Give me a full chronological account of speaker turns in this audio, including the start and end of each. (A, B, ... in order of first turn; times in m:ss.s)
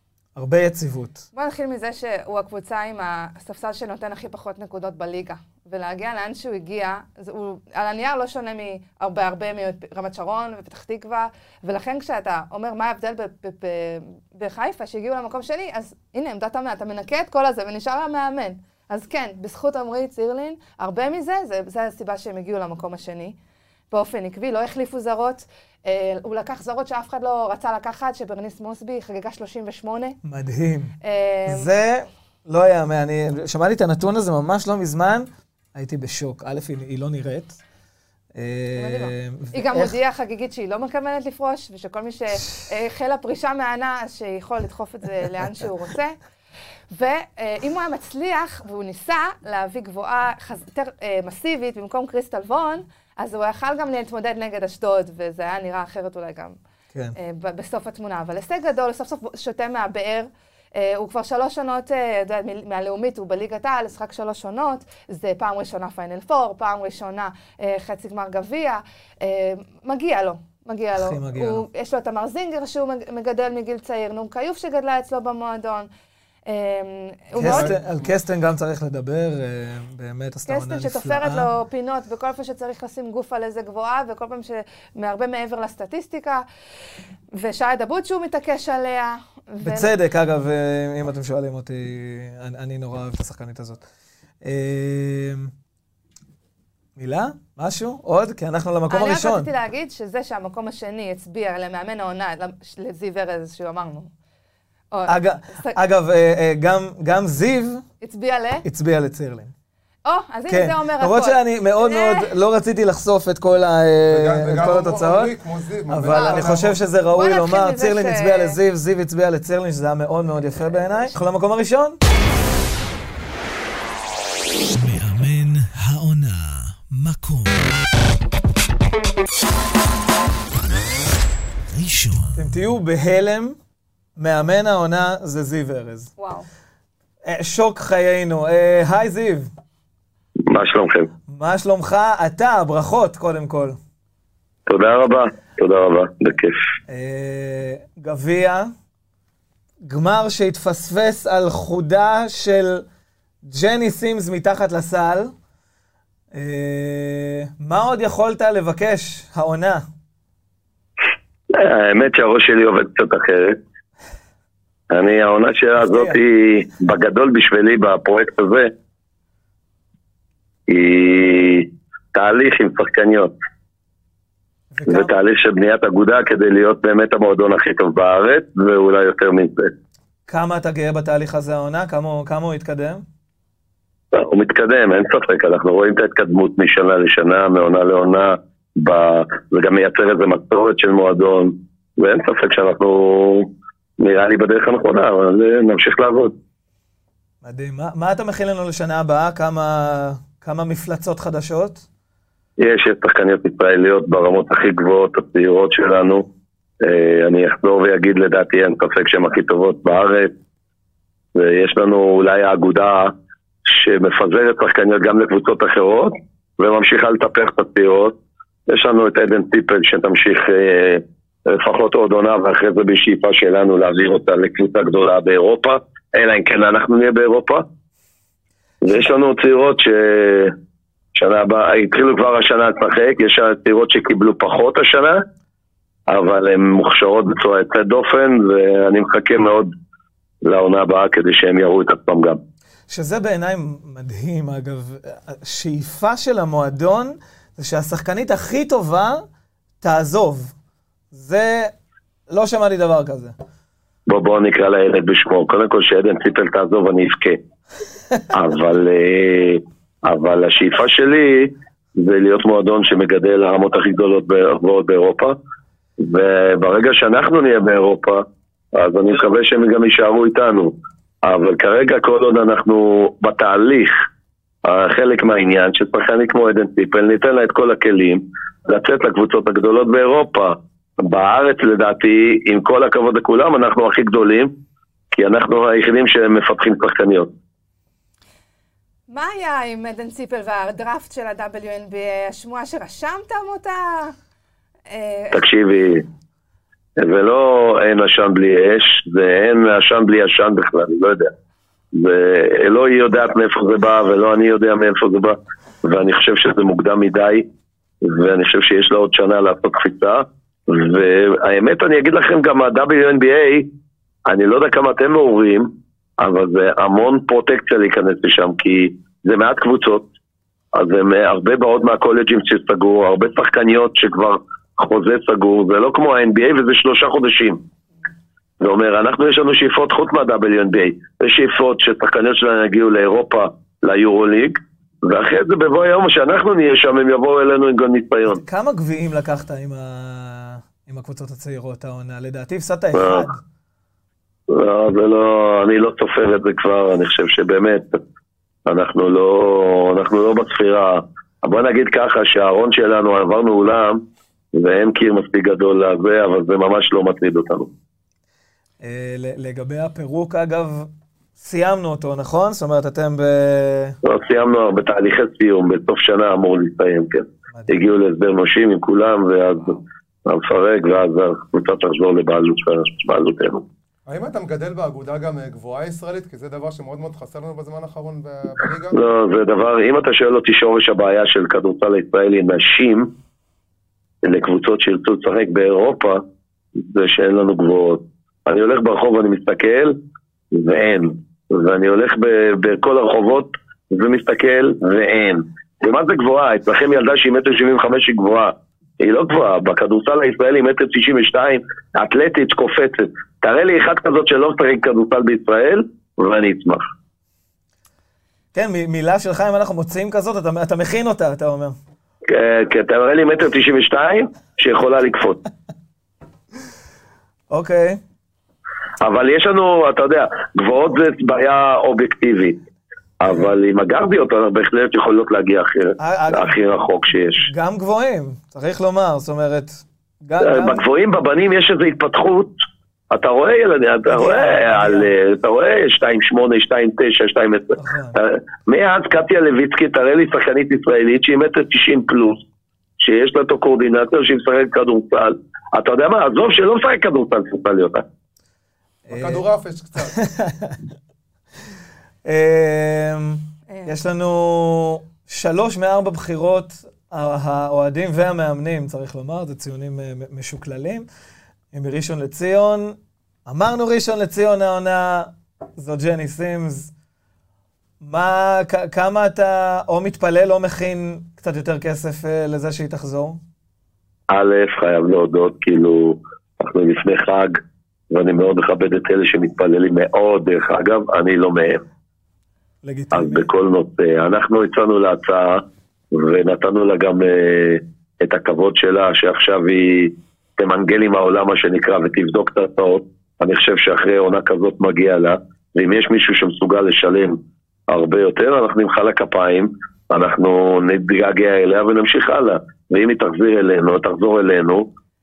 0:00.4-0:01.2 A
0:01.4-0:23.4 B
0:23.9-0:30.2 B
0:30.2-0:30.9 A
0:31.0-0:31.7 B
0:31.4-0:37.6 A
0:38.4-0:39.9 A
0:38.8-0:46.2 B
0:46.9-0:56.6 B
0:57.2-1:15.9 B
1:10.9-1:11.6 A
1:16.5-1:17.8 B
1:17.4-1:18.1 C
1:17.4-1:21.5 A
1:20.5-1:26.4 B
1:27.3-1:29.9 B
1:29.6-1:33.8 A
1:34.4-1:35.5 A
1:37.0-1:39.5 A
1:38.9-1:44.1 B
1:44.9-1:45.8 B
1:45.0-1:47.8 A
1:48.0-1:48.6 B
1:48.6-1:49.5 A
1:50.0-1:52.3 B
1:50.5-1:55.3 A
1:54.1-1:56.8 C
1:55.9-2:02.0 A
1:56.0-1:58.6 B
2:04.7-2:07.8 D
2:11.6-2:12.7 D
2:12.3-2:13.6 A
2:14.2-2:16.1 A
2:16.2-2:16.5 B
2:17.2-2:19.5 A
2:20.4-2:21.1 E
2:21.3-2:23.8 A
2:24.7-2:26.6 E
2:26.9-2:28.7 A
2:29.8-2:32.9 A
2:33.4-2:35.3 A
2:36.3-2:39.8 A
2:41.5-2:43.6 E
2:44.9-2:48.7 E
2:45.8-2:46.2 A
2:50.7-2:53.3 E
2:54.7-2:55.1 A
2:54.9-2:59.7 E
3:00.3-3:03.0 A
3:04.1-3:13.5 E
3:14.0-3:16.3 E
3:17.4-3:21.9 A
3:22.6-3:26.2 E
3:26.8-3:30.3 E
3:31.4-3:33.1 E
3:33.6-3:38.1 E
3:38.7-3:47.6 E
3:48.8-3:50.5 E
3:51.1-3:55.2 E
3:56.1-3:59.7 E
4:00.4-4:02.4 E
4:02.9-4:09.2 A
4:09.8-4:10.5 A
4:11.1-4:11.7 A
4:12.3-4:13.4 A
4:14.1-4:17.4 E
4:18.3-4:25.3 E
4:26.0-4:34.0 E
4:34.6-4:44.5 E
4:45.1-4:47.3 E
4:49.1-4:54.1 B
4:54.9-4:55.5 B
4:55.3-4:56.0 E
4:57.0-5:01.3 E
5:01.9-5:07.4 E
5:08.0-5:13.6 E
5:14.2-5:20.0 E
5:20.7-5:27.6 E
5:28.6-5:38.4 E
5:38.3-5:43.4 A
5:42.9-5:43.3 E
5:44.5-5:48.0 E
5:48.6-5:54.0 E
5:54.5-5:57.7 E
5:58.8-6:04.0 A
6:04.0-6:13.6 E
6:07.5-6:07.8 A
6:14.1-6:19.0 C
6:18.9-6:23.1 E
6:24.2-6:26.2 E
6:26.8-6:30.0 E
6:30.5-6:46.9 E
6:48.5-6:51.8 A
6:52.3-6:55.4 E
6:57.5-6:58.0 A
6:59.0-7:02.6 E
7:03.2-7:07.5 E
7:06.0-7:06.6 A
7:07.3-7:10.8 A
7:10.4-7:12.5 E
7:13.1-7:22.4 E
7:14.1-7:15.1 A
7:17.8-7:18.2 A
7:23.0-7:28.0 E
7:29.1-7:29.4 A
7:29.1-7:30.2 C
7:30.0-7:30.9 A
7:32.2-7:41.1 A
7:33.7-7:33.9 B
7:41.7-7:46.9 A
7:48.0-7:53.4 A
7:54.3-7:57.6 E
7:58.1-8:01.8 E
8:02.8-8:03.5 A
8:03.1-8:05.6 E
8:06.1-8:24.8 E